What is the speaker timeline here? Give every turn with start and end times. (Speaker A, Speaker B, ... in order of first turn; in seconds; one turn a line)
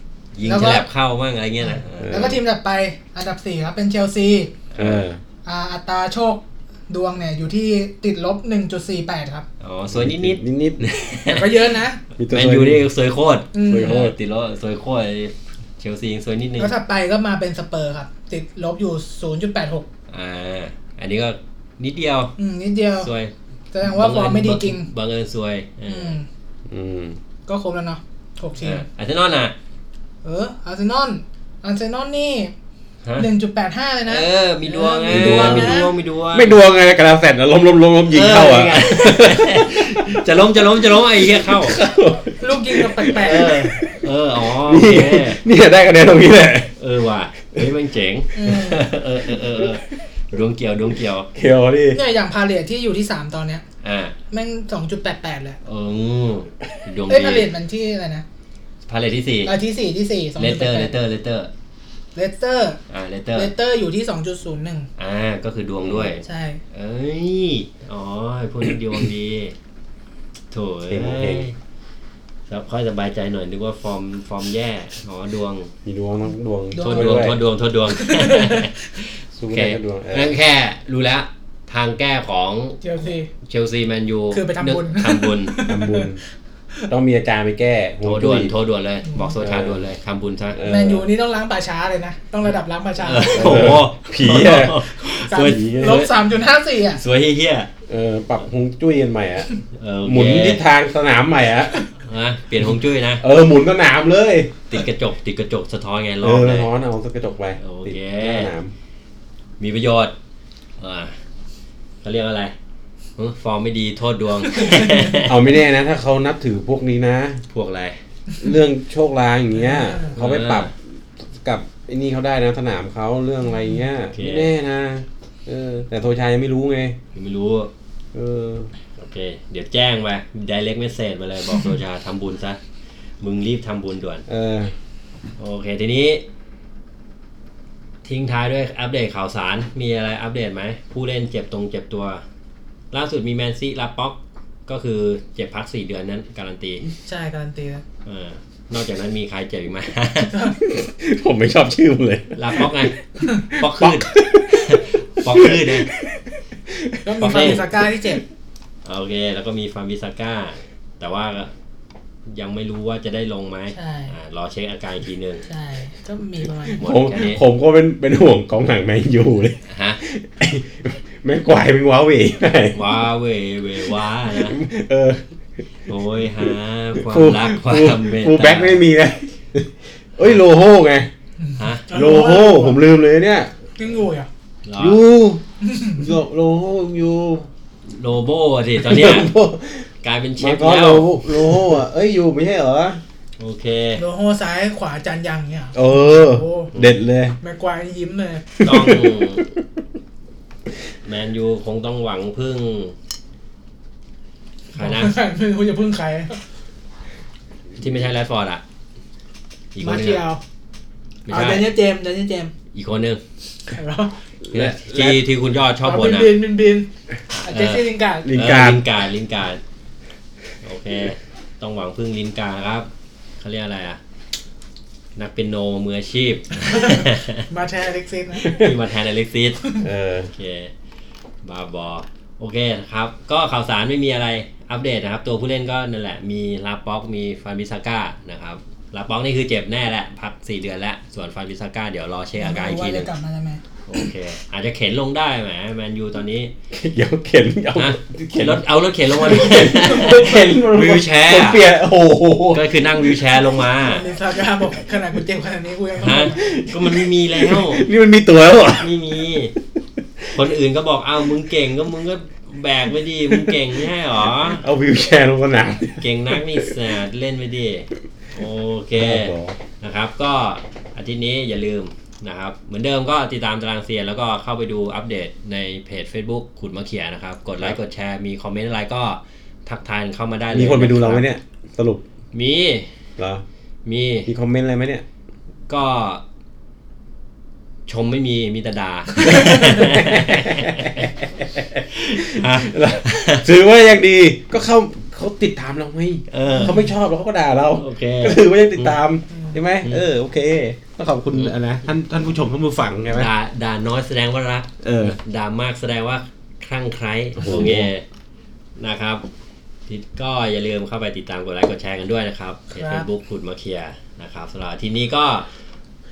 Speaker A: 0.3-2.3
Speaker B: 0.5-0.9
Speaker B: 1.6-4.5
Speaker C: 2.0-2.4
Speaker A: 4.7-5.0
Speaker C: 4.8-5.2
Speaker B: 5.4-9.4
Speaker A: 9.6-11.8
Speaker C: 9.9-10.9
Speaker B: 11.3-12.0
Speaker C: 12.2-12.9
Speaker A: 12.3-16.7
Speaker B: 13.5-14.0
Speaker C: 13.6-14.1
Speaker B: 16.6-19.9
Speaker A: 20.1-22.3
Speaker B: 22.4-23.1
Speaker A: 23.0-26.2
Speaker B: 23.7-24.9
Speaker B: 25.9-26.3
Speaker C: 26.7-27.2
Speaker B: 27.5-28.9
Speaker A: 28.6-29.5
Speaker B: 30.2-32.5
Speaker A: 33.0-33.3
Speaker B: 33.2-35.9
Speaker A: 34.0-36.6
Speaker C: 35.1-46.7
Speaker A: 38.1-41.8
Speaker B: 42.4-43.5
Speaker A: 43.1-45.4
Speaker A: 46.8-51.3
Speaker B: 48.3-48.9
Speaker C: 51.3-52.0
Speaker B: 51.9-53.6
Speaker A: 53.8-54.1
Speaker B: 54.3-55.6
Speaker A: 55.6-57.5
Speaker B: 57.1-58.2
Speaker A: 58.9-59.5
Speaker B: 59.4-60.9
Speaker A: 60.4-61.5
Speaker B: 62.1-62.8
Speaker A: 62.9-63.5
Speaker B: 63.3-64.9
Speaker A: 65.0-69.5
Speaker C: 65.8-66.1
Speaker B: 66.2-66.6
Speaker A: 70.5-71.5
Speaker C: 70.9-71.5
Speaker A: 72.5-75.7
Speaker C: 75.8-77.4
Speaker B: 76.7-77.3
Speaker A: 76.8-82.8
Speaker B: 77.9-78.8
Speaker C: 79.3-80.3
Speaker B: 82.8-83.3
Speaker A: 83.4-85.6
Speaker B: 84.3-86.1
Speaker C: 85.7-86.2
Speaker C: 86.9-88.5
Speaker A: 88.0-90.6
Speaker B: 89.0-89.3
Speaker C: 89.4-89.9
Speaker C: 90.5-91.1
Speaker B: 90.6-93.8
Speaker A: 93.0-96.1
Speaker C: 93.3-94.8
Speaker B: 95.0-97.0
Speaker A: 96.9-97.7
Speaker C: 97.9-101.9
Speaker A: 99.7-100.6
Speaker A: 102.0-103.2
Speaker C: 103.2-104.6
Speaker A: 104.7-106.7
Speaker C: 106.2-108.7
Speaker A: 107.6-108.5
Speaker A: 109.6-110.1
Speaker A: 110.8-111.1
Speaker A: 112.0-112.5
Speaker A: 113.2-115.4
Speaker C: 115.2-117.4
Speaker A: 117.5-118.0
Speaker C: 118.4-127.0
Speaker B: 119.5-120.1
Speaker A: 120.2-120.7
Speaker A: 124.1-124.5
Speaker A: 127.1-127.7
Speaker C: 128.1-128.7
Speaker A: 128.9-132.6
Speaker A: 133.2-134.2
Speaker C: 134.3-134.7
Speaker A: 135.4-136.2
Speaker A: 138.0-142.2
Speaker A: 142.9-146.9
Speaker B: 147.1-147.8
Speaker A: 148.0-150.5
Speaker B: 150.2-150.6
Speaker C: 150.6-157.6
Speaker A: 152.3-155.9
Speaker B: 157.0-158.2
Speaker A: 157.2-157.6
Speaker A: 158.8-161.5
Speaker A: 162.3-165.4
Speaker B: 163.7-164.1
Speaker B: 165.4-166.8
Speaker C: 166.8-172.8
Speaker A: 166.8-167.4
Speaker A: 169.7-170.0
Speaker A: 172.7-174.6
Speaker C: 174.3-175.3
Speaker A: 175.9-178.8
Speaker C: 176.4-181.1
Speaker B: 181.5-182.8
Speaker A: 181.6-181.9
Speaker C: 181.9-183.5
Speaker B: 183.8-184.3
Speaker A: 184.6-185.0
Speaker C: 184.8-185.4
Speaker B: 185.6-186.0
Speaker C: 185.9-187.5
Speaker A: 187.9-189.3
Speaker C: 188.8-193.0
Speaker A: 190.0-191.8
Speaker A: 193.4-194.0
Speaker B: 194.0-196.7
Speaker C: 195.7-197.4
Speaker A: 196.7-197.0
Speaker B: 197.4-198.5
Speaker C: 198.6-199.6
Speaker A: 198.6-199.4
Speaker A: 201.0-202.9
Speaker A: 204.7-205.1
Speaker B: 204.8-206.4
Speaker A: 207.8-208.6
Speaker A: 209.7-210.2
Speaker B: 209.8-210.4
Speaker A: 211.3-211.7
Speaker B: 211.3-212.5
Speaker A: 212.7-213.2
Speaker B: 213.7-214.2
Speaker C: 214.4-215.2
Speaker A: 214.5-216.3
Speaker B: 215.8-216.9
Speaker A: 217.3-219.6
Speaker B: 217.4-218.3
Speaker C: 218.2-218.8
Speaker A: 220.6-222.9
Speaker A: 223.4-224.0
Speaker A: 225.2-227.5
Speaker B: 226.6-228.6
Speaker A: 228.4-229.7
Speaker C: 228.5-228.7
Speaker C: 229.8-230.3
Speaker A: 230.3-230.7
Speaker A: 231.4-243.1
Speaker B: 242.4-243.6
Speaker A: 243.9-246.5
Speaker C: 246.7-253.4
Speaker A: 247.7-251.6
Speaker A: 252.5-254.0
Speaker B: 253.8-256.5
Speaker A: 256.0-257.9
Speaker C: 256.3-258.9
Speaker A: 258.8-259.5
Speaker A: 260.3-264.6
Speaker C: 263.3-263.6
Speaker C: 264.4-266.8
Speaker A: 266.0-281.2
Speaker C: 268.9-269.6
Speaker C: 280.5-282.0
Speaker A: 282.3-282.9
Speaker C: 283.2-283.4
Speaker A: 283.9-284.3
Speaker C: 284.2-285.0
Speaker A: 285.7-286.2
Speaker A: 287.9-291.1
Speaker C: 289.2-303.3
Speaker A: 291.9-293.5
Speaker A: 296.3-296.8
Speaker A: 297.7-299.0
Speaker A: 303.1-308.0
Speaker C: 304.8-305.1
Speaker C: 307.4-307.9
Speaker A: 308.8-309.2
Speaker A: 309.9-315.5
Speaker B: 312.7-313.1